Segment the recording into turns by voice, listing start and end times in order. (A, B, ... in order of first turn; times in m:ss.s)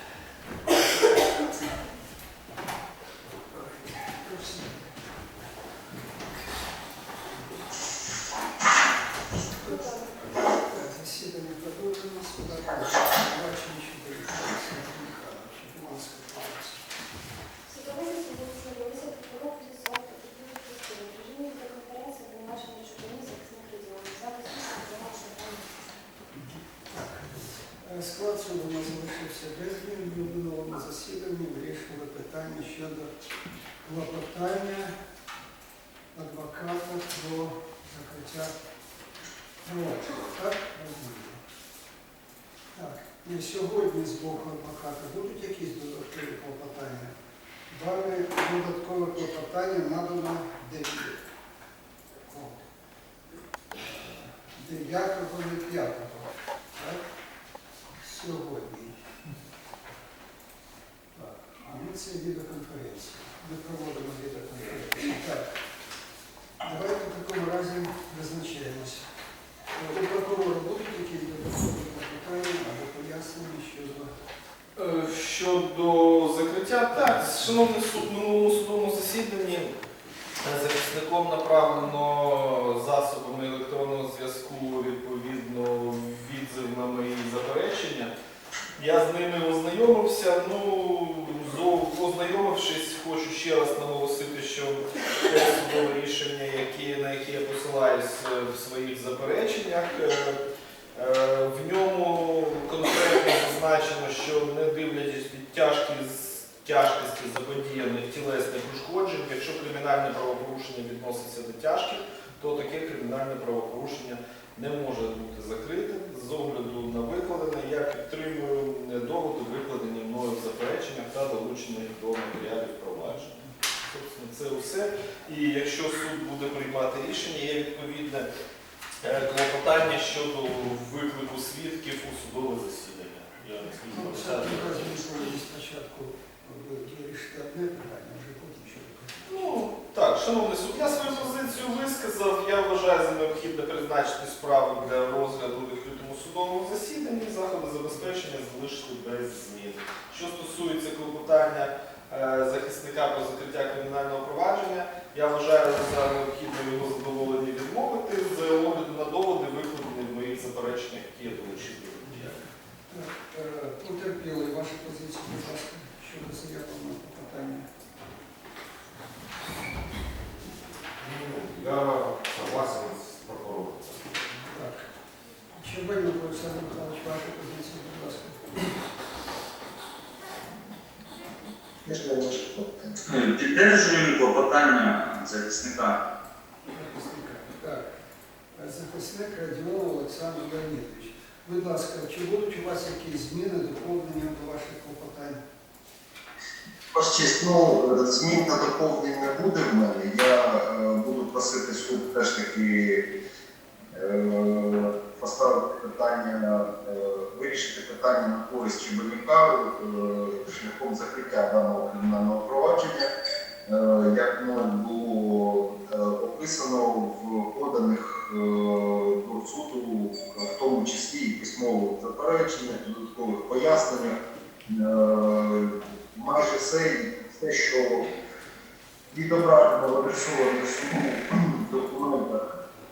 0:03.5-0:04.9 A
0:09.6-0:16.8 A
0:26.8-0:33.1 A
0:33.8-0:34.9 A
0:36.1-0:38.5 A
0:39.6-0:41.4 A
0:42.7-0:47.1 A
0:47.7-0:51.2 A
0:52.2-0:52.6 A
0:53.7-0:57.0 A
0:58.0-0:58.9 A
1:01.1-1:05.5 A
1:06.6-1:09.1 A
1:09.7-1:14.1 A
1:14.8-1:19.7 B
1:20.4-1:28.1 B
1:28.8-1:40.4 B
1:40.9-2:08.3 B
2:09.0-2:15.0 B
2:13.8-2:19.3 A
2:19.2-2:42.4 B
2:42.9-2:47.7 A
2:51.0-2:54.2 C
2:54.5-2:54.9 A
2:55.5-2:58.8 A
3:01.8-3:03.0 D
3:03.1-3:06.0 E
3:06.7-3:07.9 A
3:08.5-3:15.4 A
3:16.9-3:23.1 D
3:23.9-3:33.1 D
3:33.6-3:44.1 D
3:44.7-3:48.1 D
3:49.1-3:52.5 D